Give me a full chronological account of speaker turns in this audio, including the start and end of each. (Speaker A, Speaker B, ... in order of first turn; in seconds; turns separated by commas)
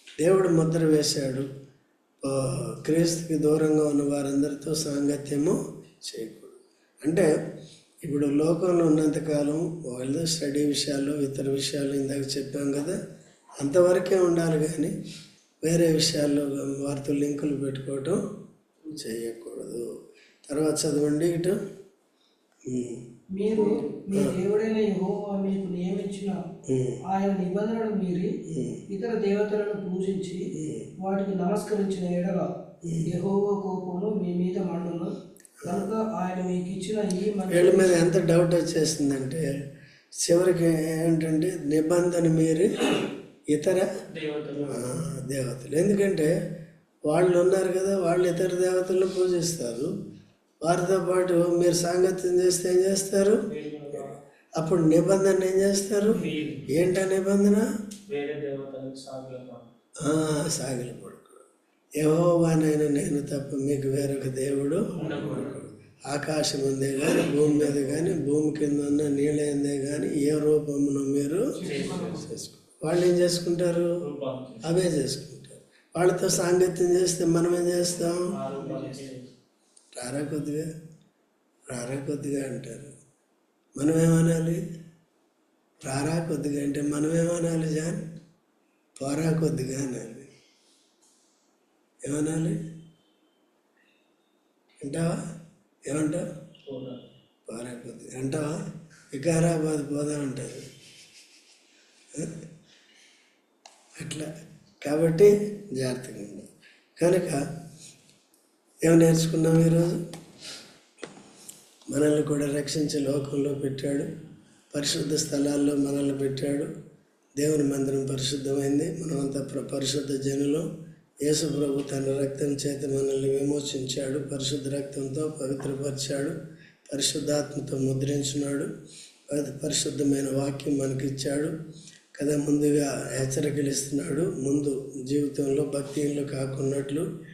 Speaker A: 0.2-1.5, Speaker A: 2.2-7.3, Speaker A: 8.0-13.0, Speaker A: 13.6-14.9, Speaker A: 15.6-18.2, Speaker A: 18.9-19.9, Speaker A: 20.5-21.6, Speaker A: 22.7-23.1, Speaker B: 23.4-26.4, Speaker A: 26.7-27.0, Speaker B: 27.1-28.3, Speaker A: 28.4-28.9, Speaker B: 28.9-30.4, Speaker A: 30.5-30.9, Speaker B: 31.0-32.5, Speaker A: 32.8-33.1, Speaker B: 33.0-35.1, Speaker A: 35.6-35.9, Speaker B: 35.6-38.1, Speaker A: 37.5-39.5, Speaker A: 40.2-43.9, Speaker C: 44.1-44.9, Speaker A: 44.7-46.3, Speaker A: 47.1-49.9, Speaker A: 50.6-57.7, Speaker C: 53.5-54.2, Speaker C: 56.1-56.7, Speaker C: 58.1-59.7, Speaker A: 60.0-61.5, Speaker A: 62.0-73.9, Speaker B: 65.0-65.5, Speaker C: 65.0-65.5, Speaker C: 67.3-68.1, Speaker C: 71.6-72.1, Speaker B: 71.6-72.3, Speaker C: 74.0-74.7, Speaker A: 74.6-78.3, Speaker C: 78.3-79.3, Speaker B: 78.5-79.0, Speaker A: 79.9-80.7, Speaker A: 81.7-82.9, Speaker A: 83.8-84.6, Speaker A: 85.8-88.0, Speaker A: 89.0-90.3, Speaker A: 92.0-92.6, Speaker A: 94.8-95.2, Speaker A: 95.9-96.2, Speaker C: 96.7-97.0, Speaker A: 97.5-98.6, Speaker A: 99.1-100.7, Speaker A: 102.1-102.4, Speaker A: 104.0-104.3, Speaker A: 104.8-107.4, Speaker A: 108.8-110.0, Speaker A: 111.9-114.1, Speaker A: 114.7-116.7, Speaker A: 117.4-120.7, Speaker A: 121.2-126.4, Speaker A: 126.9-128.7, Speaker A: 129.3-131.5, Speaker A: 132.2-137.1